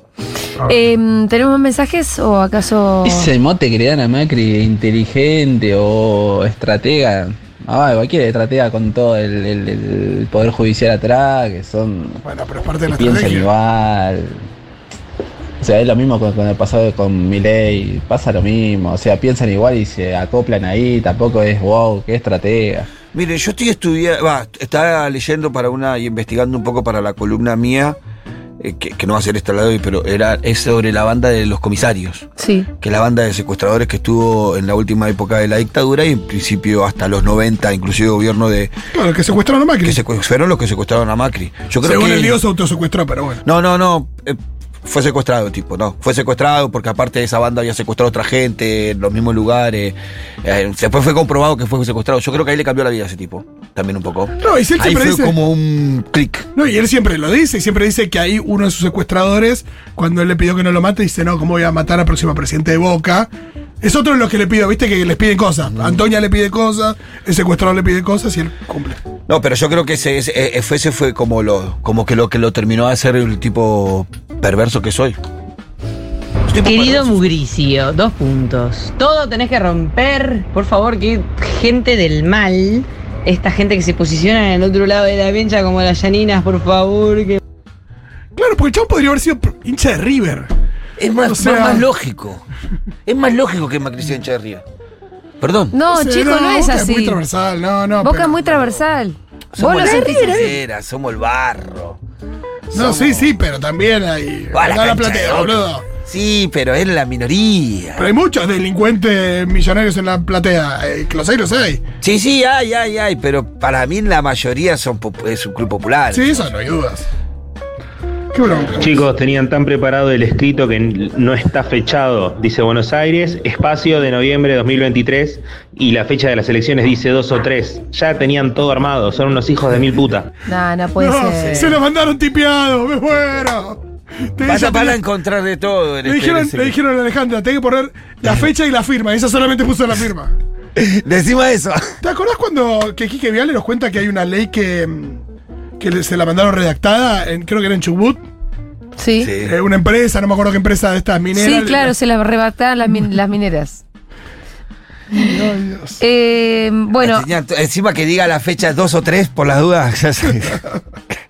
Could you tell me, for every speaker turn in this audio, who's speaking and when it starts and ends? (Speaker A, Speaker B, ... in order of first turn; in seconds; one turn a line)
Speaker A: 0.6-3.3
Speaker B: 3.0-12.2
Speaker C: 12.2-13.5
Speaker B: 13.0-14.4
Speaker B: 15.6-22.9
Speaker D: 23.1-28.0
Speaker D: 28.6-32.3
Speaker A: 32.4-32.7
Speaker D: 32.8-38.7
Speaker C: 38.9-40.0
Speaker D: 39.8-42.4
Speaker C: 41.8-43.4
Speaker D: 43.4-56.5
Speaker C: 54.4-55.4
Speaker C: 56.5-63.3
Speaker C: 63.8-69.0
Speaker D: 65.7-66.0
Speaker D: 69.3-75.2
Speaker D: 76.5-77.3
Speaker E: 76.6-87.4
Speaker C: 88.4-90.5
Speaker D: 91.0-92.5
Speaker C: 91.2-91.9
Speaker D: 93.1-94.6
Speaker D: 95.4-95.8
Speaker A: 95.7-97.2
Speaker C: 95.9-98.8
Speaker A: 98.0-100.5
Speaker D: 99.5-102.0
Speaker D: 102.7-103.4
Speaker C: 102.7-105.8
Speaker D: 104.5-108.1
Speaker C: 108.0-111.8
Speaker D: 112.0-116.5
Speaker C: 116.1-117.1
Speaker C: 118.3-119.1
Speaker F: 118.8-130.3
Speaker A: 130.5-131.8
Speaker C: 131.0-133.8
Speaker C: 134.3-135.0
Speaker D: 134.4-136.8
Speaker C: 136.1-140.3
Speaker D: 140.8-142.0
Speaker C: 142.0-145.2
Speaker C: 145.8-148.2
Speaker A: 149.0-149.3
Speaker D: 149.2-149.6
Speaker C: 149.4-151.9
Speaker A: 151.3-153.8
Speaker C: 155.1-156.0
Speaker A: 156.0-157.3
Speaker D: 157.0-160.6